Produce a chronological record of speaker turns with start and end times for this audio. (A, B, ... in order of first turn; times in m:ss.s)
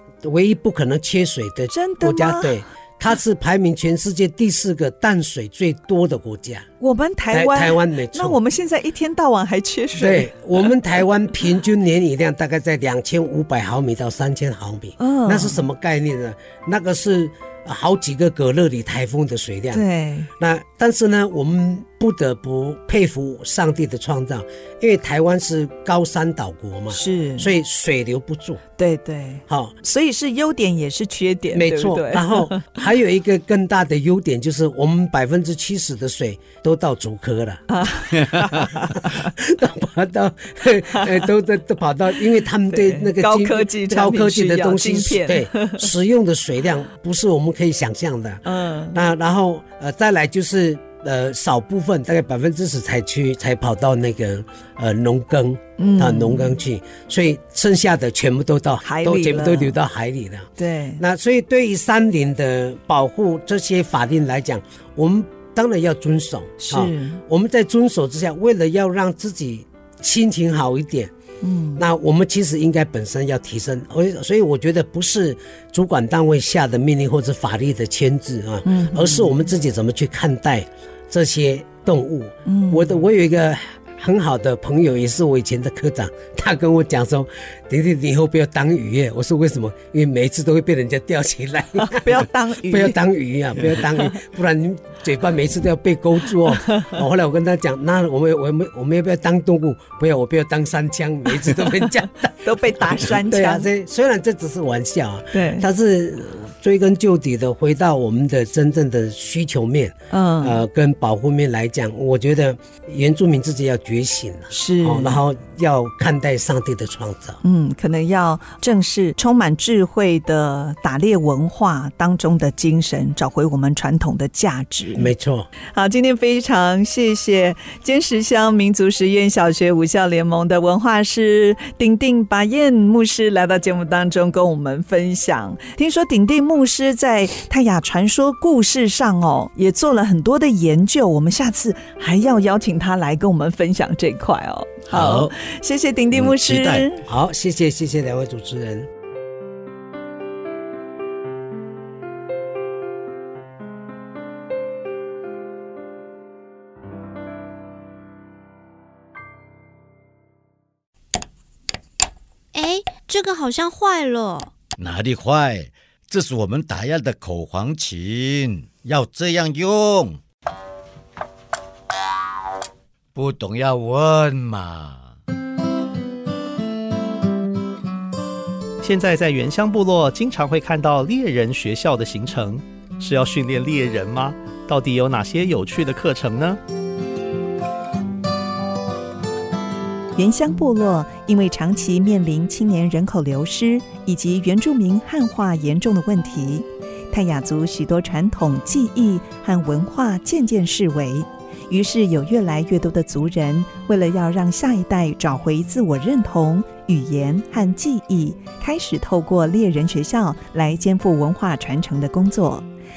0:00.2-0:06.7 A
0:01.7-0:02.6 B
0:06.8-0:10.7 B
0:07.3-0:08.4 A
0:10.0-0:19.8 A
0:15.0-0:15.6 B
0:19.7-0:20.3 B
0:20.4-0:28.6 A
0:26.9-0:27.5 B
0:28.8-0:32.7 B
0:29.5-0:29.8 A
0:31.5-0:37.6 A
0:37.7-0:39.3 B
0:38.9-1:11.1 A
0:42.7-0:45.9 B
0:48.4-0:49.0 B
0:55.8-0:56.6 B
0:58.8-0:59.8 B
1:00.6-1:01.0 B
1:06.6-1:07.2 B
1:11.4-1:11.8 B
1:11.8-1:57.4 A
1:18.6-1:19.3 B
1:22.4-1:22.9 B
1:31.8-1:33.0 B
1:42.4-1:43.7 B
1:45.3-1:45.6 B
1:50.1-1:50.6 B
1:54.5-1:55.2 B
1:57.4-2:05.1 B
2:05.0-2:05.5 A
2:05.7-2:27.0 B
2:24.9-2:25.3 C
2:26.1-2:26.8 C
2:27.0-2:28.9 A
2:42.5-2:44.5 D
2:44.8-2:50.2 C
2:53.1-2:55.1 C
2:58.8-3:06.6 E
3:10.2-3:32.6 B